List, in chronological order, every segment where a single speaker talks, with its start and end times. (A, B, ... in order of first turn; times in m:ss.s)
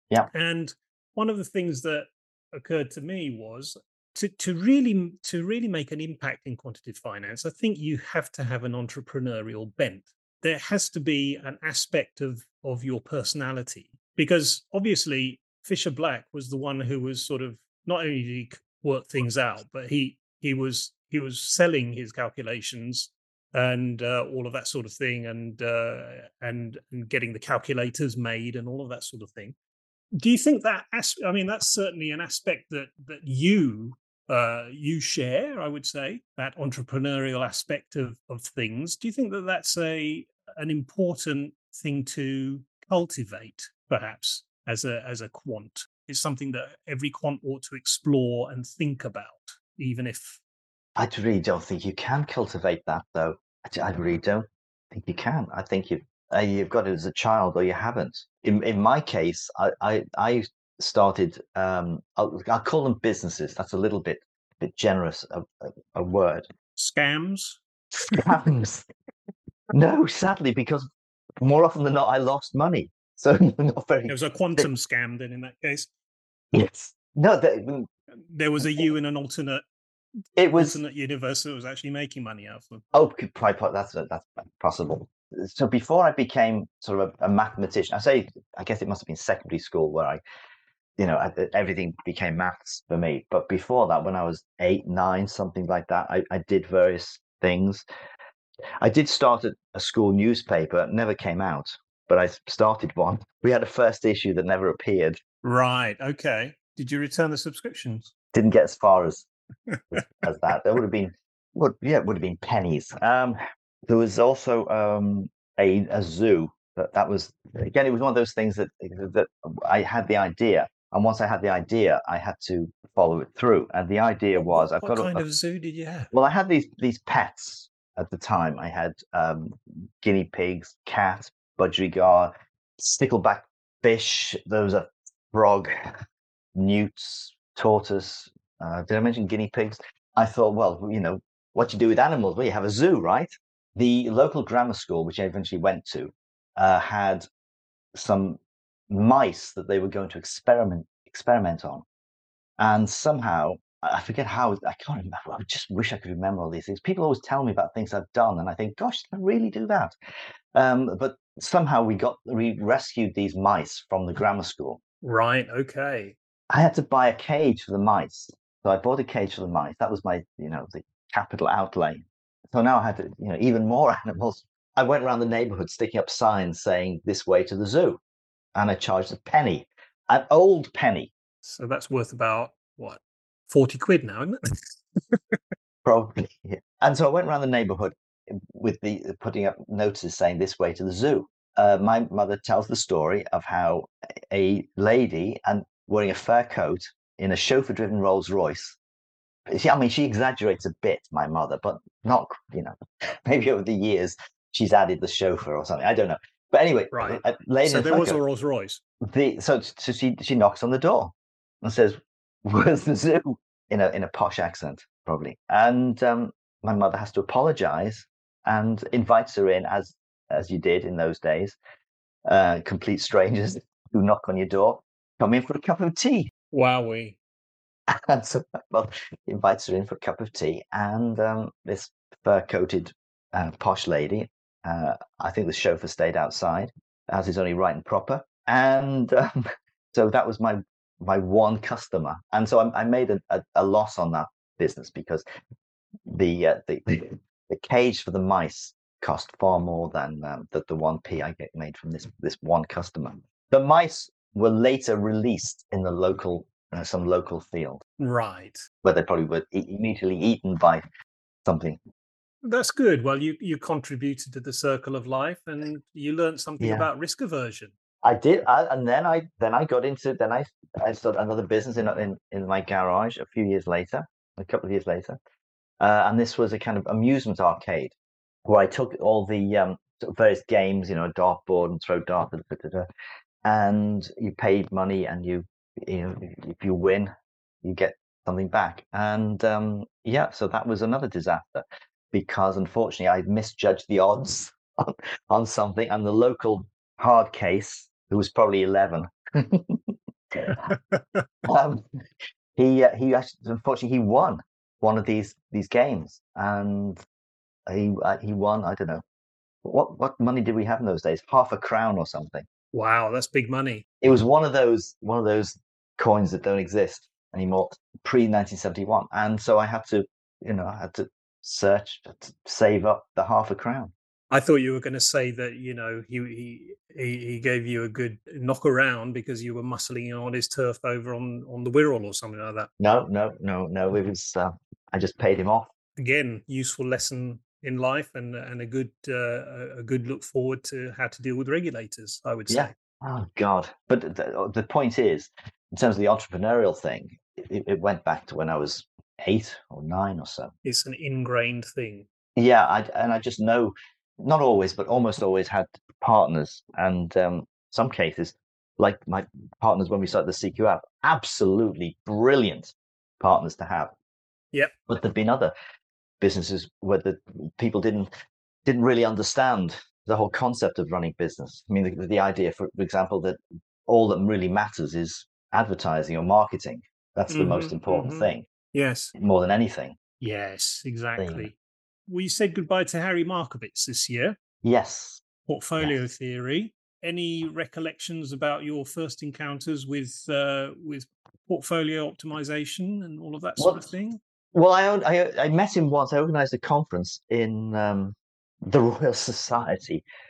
0:00.3-0:29.5 A
0:30.1-0:50.4 A
0:51.0-1:06.5 B
1:06.8-1:07.6 A
1:08.1-1:08.9 B
1:09.7-1:10.9 B
1:11.4-1:14.7 B
1:14.1-1:15.9 A
1:16.5-1:17.9 B
1:18.1-1:19.6 A
1:20.4-1:20.8 B
1:20.5-1:22.8 A
1:22.9-1:30.2 B
1:31.0-1:37.8 B
1:38.8-1:45.2 B
1:45.4-1:48.1 A
1:48.3-1:49.3 B
1:50.1-2:05.2 B
2:04.4-2:06.1 A
2:06.1-2:15.9 B
2:16.5-2:27.3 B
2:27.9-2:31.8 B
2:32.6-2:39.9 B
2:40.5-2:44.8 B
2:45.0-2:46.2 A
2:46.5-2:58.0 B
2:58.5-3:01.1 B
3:01.4-3:05.4 A
3:05.8-3:18.8 B
3:19.5-3:28.2 B
3:26.9-3:28.8 A
3:29.0-3:41.6 B
3:42.2-3:46.3 B
3:46.5-3:47.2 A
3:47.9-4:05.2 B
4:06.1-4:17.8 B
4:18.0-4:18.6 A
4:18.8-4:20.8 B
4:21.4-4:21.8 B
4:22.4-4:27.7 A
4:26.6-4:26.9 B
4:28.0-4:35.2 B
4:35.8-4:37.9 B
4:38.4-4:42.9 B
4:43.4-4:47.1 B
4:47.6-5:00.7 B
5:00.7-5:01.0 A
5:01.4-5:02.0 B
5:02.6-5:07.0 B
5:07.7-5:09.0 B
5:09.6-5:12.4 B
5:12.7-5:13.8 A
5:14.0-5:23.9 B
5:24.3-5:32.7 A
5:32.8-5:35.7 B
5:36.0-5:42.7 A
5:42.5-5:50.5 B
5:50.6-5:52.1 A
5:52.4-6:03.9 B
6:04.9-6:05.5 B
6:06.2-6:08.1 B
6:08.6-6:18.5 B
6:17.3-6:19.1 A
6:19.2-6:20.0 B
6:20.2-6:21.5 A
6:21.2-6:21.5 B
6:22.1-6:24.4 A
6:24.6-6:25.2 B
6:25.4-6:34.2 A
6:33.6-6:33.9 B
6:34.5-6:40.0 B